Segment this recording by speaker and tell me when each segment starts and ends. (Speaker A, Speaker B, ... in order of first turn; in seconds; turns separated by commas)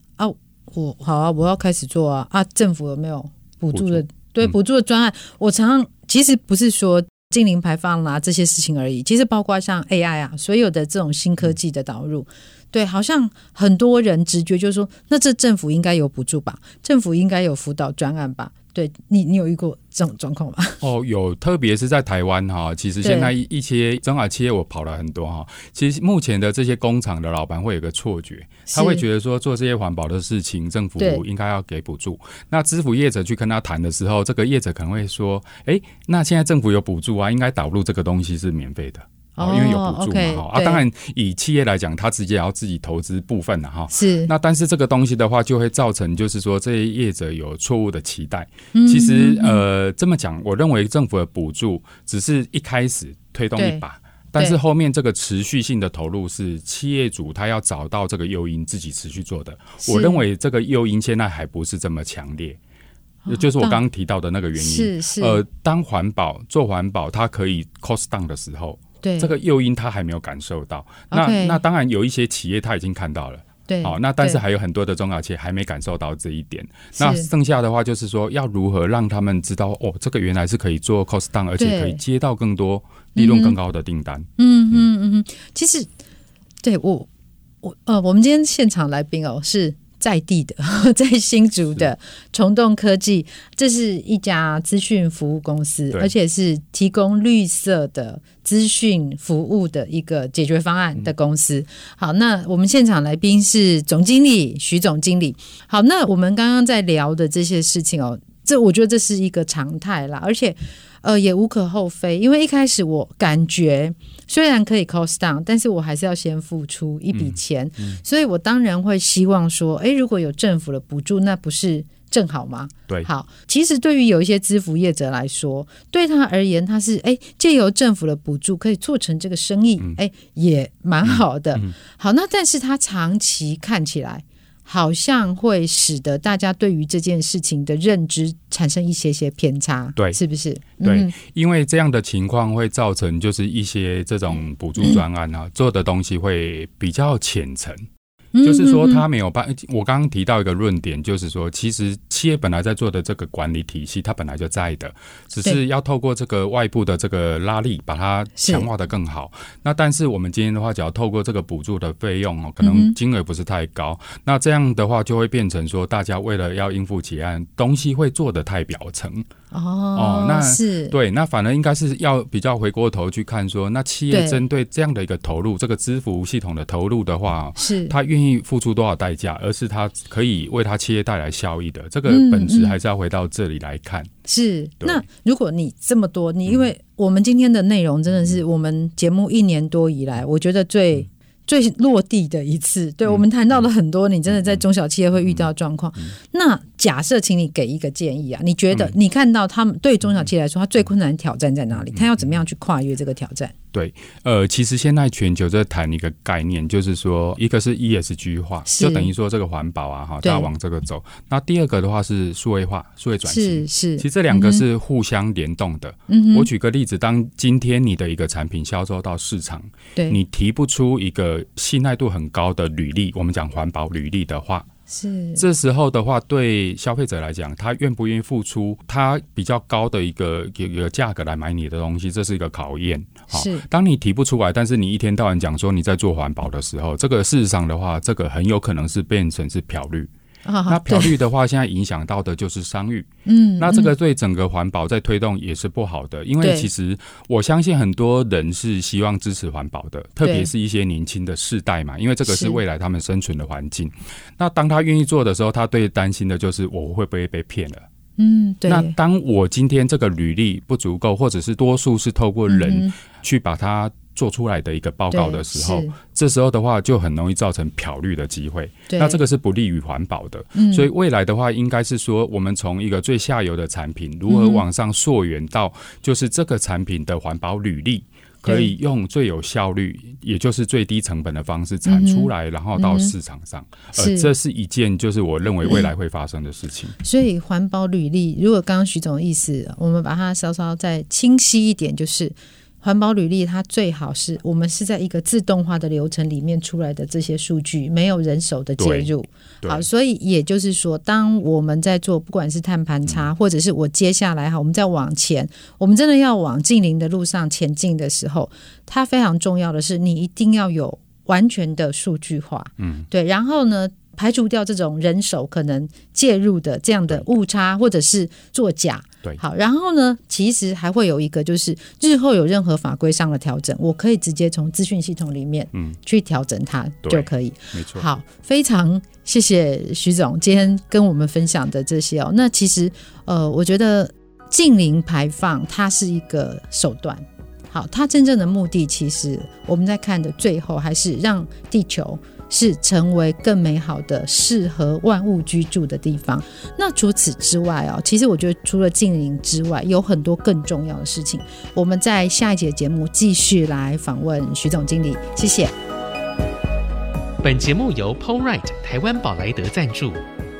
Speaker A: 0.2-20.8, Speaker B: 3.7-4.5, Speaker B: 20.8-62.6, Speaker A: 23.0-23.3, Speaker A: 28.7-29.0, Speaker A: 31.0-31.2, Speaker A: 39.4-40.8, Speaker A: 43.9-44.3, Speaker A: 48.7-49.6, Speaker A: 53.5-53.8, Speaker A: 59.8-60.2, Speaker A: 63.2-63.8, Speaker B: 63.3-84.9, Speaker A: 64.5-65.4, Speaker A: 69.0-69.3, Speaker A: 71.1-71.6, Speaker A: 73.7-74.4, Speaker A: 77.0-77.3, Speaker A: 81.6-82.0, Speaker A: 83.2-83.6, Speaker A: 84.4-85.9, Speaker A: 86.6-87.1, Speaker A: 87.6-141.1, Speaker B: 117.1-118.0, Speaker B: 131.0-131.7, Speaker B: 140.8-147.8, Speaker A: 148.3-149.0, Speaker B: 148.4-169.2, Speaker A: 158.4-158.7, Speaker A: 162.6-162.9, Speaker A: 169.5-170.9, Speaker B: 169.9-184.1, Speaker A: 174.1-174.4, Speaker A: 177.6-177.9, Speaker A: 182.1-182.8, Speaker A: 184.2-203.5, Speaker B: 193.1-193.7, Speaker B: 194.3-194.6, Speaker B: 195.2-195.5, Speaker B: 198.7-198.9, Speaker B: 201.8-202.3, Speaker B: 203.7-224.7, Speaker A: 208.7-209.1, Speaker A: 210.2-210.5, Speaker A: 213.2-214.6, Speaker A: 216.1-216.5, Speaker A: 224.9-225.4, Speaker B: 225.3-240.1, Speaker A: 233.3-233.6, Speaker A: 240.4-241.2, Speaker B: 240.7-257.8, Speaker A: 243.2-243.9, Speaker A: 246.4-246.7, Speaker A: 250.2-250.5, Speaker A: 252.3-252.6, Speaker A: 258.2-258.9, Speaker B: 258.7-287.0, Speaker A: 262.5-262.9, Speaker A: 265.1-265.9, Speaker A: 268.9-269.2, Speaker A: 270.5-270.9, Speaker A: 274.3-274.6, Speaker A: 278.4-278.7, Speaker A: 281.8-283.1, Speaker A: 283.9-284.3, Speaker A: 287.0-355.7, Speaker B: 298.8-299.9, Speaker B: 312.8-313.1, Speaker B: 325.7-326.0, Speaker B: 327.0-328.1, Speaker C: 357.4-360.2